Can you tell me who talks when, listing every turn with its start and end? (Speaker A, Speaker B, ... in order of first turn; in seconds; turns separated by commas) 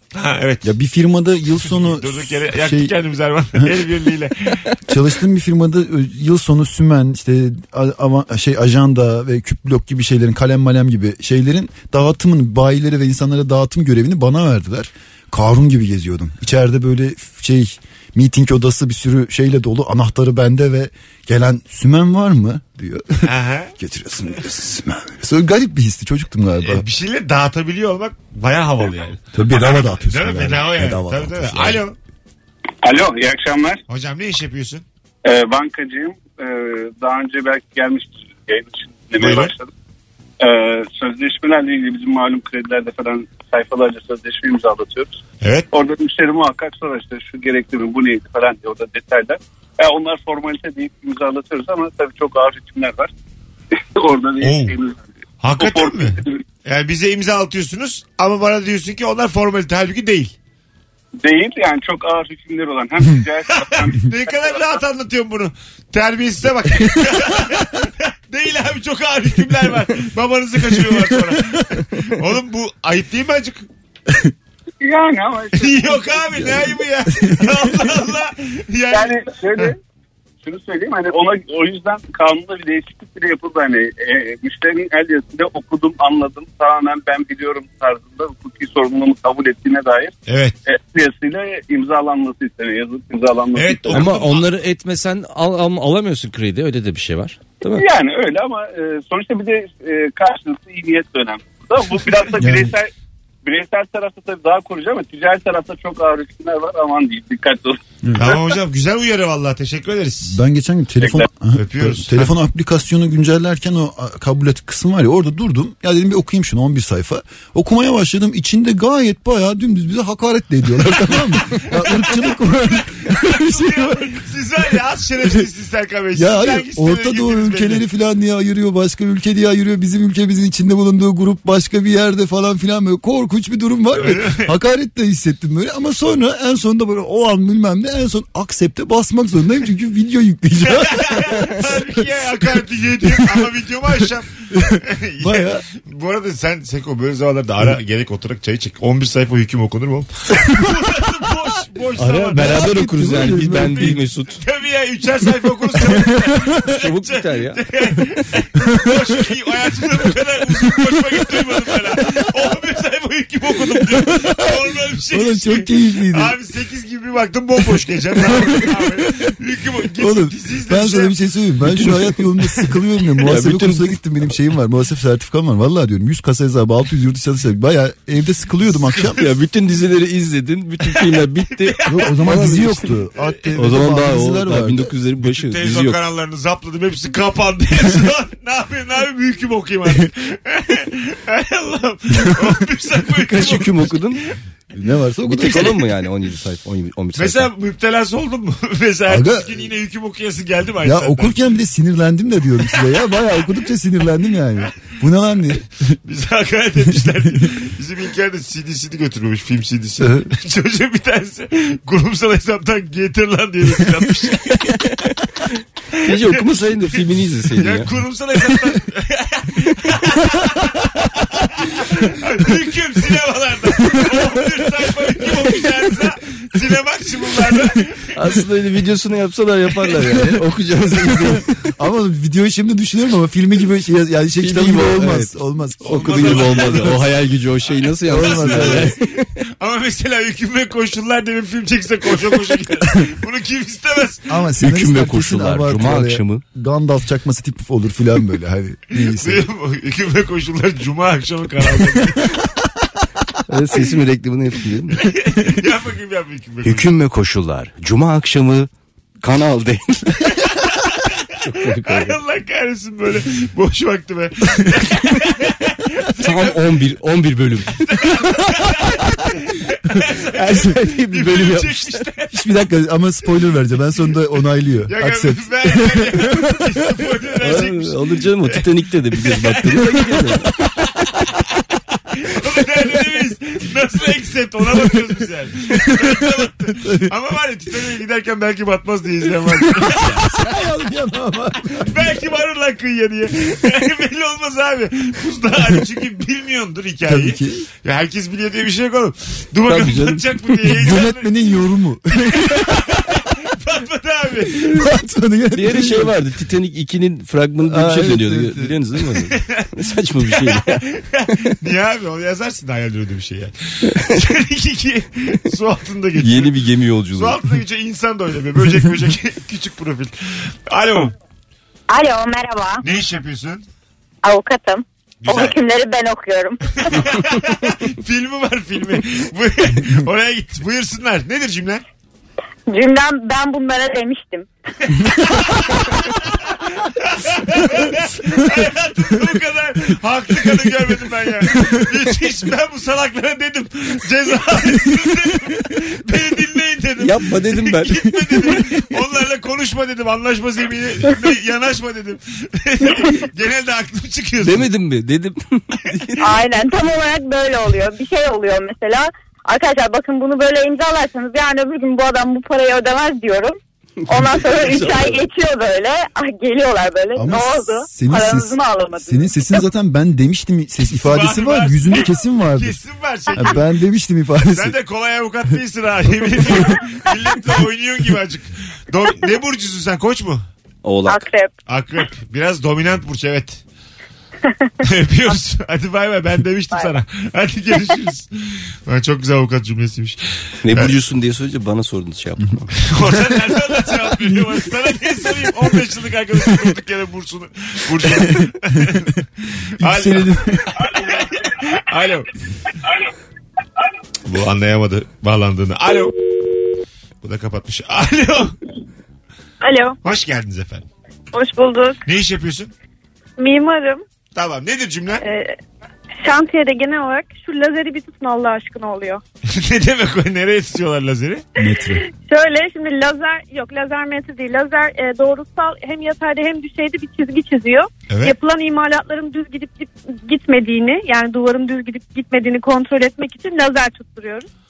Speaker A: 0.1-0.7, Speaker B: 0.6-2.9, Speaker A: 1.6-4.6, Speaker B: 4.9-26.8, Speaker A: 23.2-23.7, Speaker A: 26.6-31.9, Speaker B: 29.3-31.8, Speaker C: 32.8-33.8, Speaker A: 33.9-34.8, Speaker C: 35.2-39.7, Speaker A: 39.2-39.5, Speaker C: 40.4-45.2, Speaker A: 45.4-45.7, Speaker C: 45.7-53.1, Speaker C: 53.9-55.0, Speaker A: 54.4-54.7, Speaker A: 55.4-60.3, Speaker C: 55.5-56.4, Speaker C: 61.2-64.1, Speaker A: 63.5-73.6, Speaker C: 74.8-76.5, Speaker A: 75.5-79.7, Speaker C: 78.9-79.8, Speaker C: 80.4-90.1, Speaker A: 90.3-90.5, Speaker C: 90.7-94.2, Speaker A: 93.5-94.5, Speaker D: 93.9-97.8, Speaker C: 97.7-102.9, Speaker B: 102.4-102.7, Speaker C: 103.4-107.8, Speaker B: 108.0-108.3, Speaker A: 108.1-110.4, Speaker B: 110.2-124.2, Speaker A: 111.5-112.3, Speaker A: 121.7-127.8, Speaker B: 126.2-142.0, Speaker A: 133.9-134.4, Speaker A: 140.7-152.8, Speaker B: 143.0-143.4, Speaker B: 144.5-145.6, Speaker D: 152.0-154.4, Speaker B: 152.3-154.0, Speaker A: 153.5-171.1, Speaker B: 155.9-156.4, Speaker D: 156.8-157.6, Speaker B: 164.0-164.6, Speaker B: 165.1-166.3, Speaker B: 168.3-169.0, Speaker B: 170.0-179.2, Speaker D: 173.2-174.0, Speaker A: 178.8-179.2, Speaker D: 179.1-182.9, Speaker A: 180.9-182.1, Speaker B: 181.9-184.9, Speaker D: 183.6-186.0, Speaker A: 185.2-194.2, Speaker D: 193.3-194.2, Speaker B: 194.7-195.9, Speaker D: 195.2-197.5, Speaker A: 197.2-201.4, Speaker B: 199.1-199.6, Speaker B: 200.8-205.9, Speaker A: 202.7-203.0, Speaker A: 206.0-214.8, Speaker B: 206.9-207.5, Speaker B: 210.0-210.3, Speaker A: 215.9-228.1, Speaker D: 216.1-217.9, Speaker D: 228.2-231.5, Speaker B: 230.1-230.4, Speaker B: 231.0-237.0, Speaker D: 234.4-235.3, Speaker D: 235.8-239.0, Speaker A: 235.8-237.1, Speaker A: 238.0-244.3, Speaker B: 238.1-238.9, Speaker B: 244.3-249.4, Speaker D: 244.6-246.4, Speaker A: 248.9-252.3, Speaker D: 253.5-255.1, Speaker A: 255.0-256.9, Speaker D: 256.6-258.7, Speaker D: 259.2-260.3, Speaker A: 260.3-261.1, Speaker D: 261.4-262.2, Speaker A: 261.6-266.7, Speaker D: 266.2-268.1, Speaker A: 267.9-272.4, Speaker D: 270.3-272.0, Speaker B: 272.3-276.4, Speaker A: 274.9-279.9, Speaker D: 277.4-280.5, Speaker A: 282.1-290.3, Speaker B: 285.9-287.1, Speaker B: 289.7-292.0, Speaker A: 291.8-301.3, Speaker B: 297.1-297.7, Speaker D: 299.7-300.2, Speaker B: 300.7-303.1, Speaker A: 302.3-304.8, Speaker B: 304.7-306.1, Speaker D: 305.5-310.8, Speaker B: 307.6-308.7, Speaker A: 309.4-309.7, Speaker A: 310.2-316.5, Speaker D: 313.9-314.2, Speaker D: 316.2-317.4, Speaker A: 317.1-321.1, Speaker E: 321.9-322.7, Speaker A: 322.8-323.6, Speaker E: 324.2-326.5, Speaker A: 325.2-325.6, Speaker A: 326.8-331.8, Speaker E: 332.7-334.4, Speaker A: 335.1-336.2, Speaker A: 336.9-354.7, Speaker D: 347.0-348.6, Speaker D: 354.4-356.3, Speaker E: 356.4-363.4, Speaker D: 364.0-365.2, Speaker E: 364.1-368.8, Speaker B: 367.1-372.8, Speaker A: 370.9-373.6, Speaker B: 373.3-374.8, Speaker A: 374.5-380.4, Speaker B: 376.4-376.6, Speaker D: 380.8-381.3, Speaker A: 381.7-383.6, Speaker A: 384.8-390.9, Speaker D: 390.6-392.7, Speaker A: 392.8-399.1, Speaker B: 398.2-398.5, Speaker B: 399.8-400.8, Speaker A: 399.8-402.3, Speaker A: 404.2-406.1, Speaker A: 407.2-408.6, Speaker F: 409.6-410.0, Speaker A: 410.0-410.9, Speaker F: 411.3-412.0, Speaker A: 412.1-412.7, Speaker F: 413.4-414.0, Speaker A: 414.3-415.2, Speaker F: 415.2-415.6, Speaker F: 416.2-419.2, Speaker A: 419.5-421.4, Speaker B: 421.6-422.0, Speaker F: 421.9-434.5, Speaker A: 428.1-428.4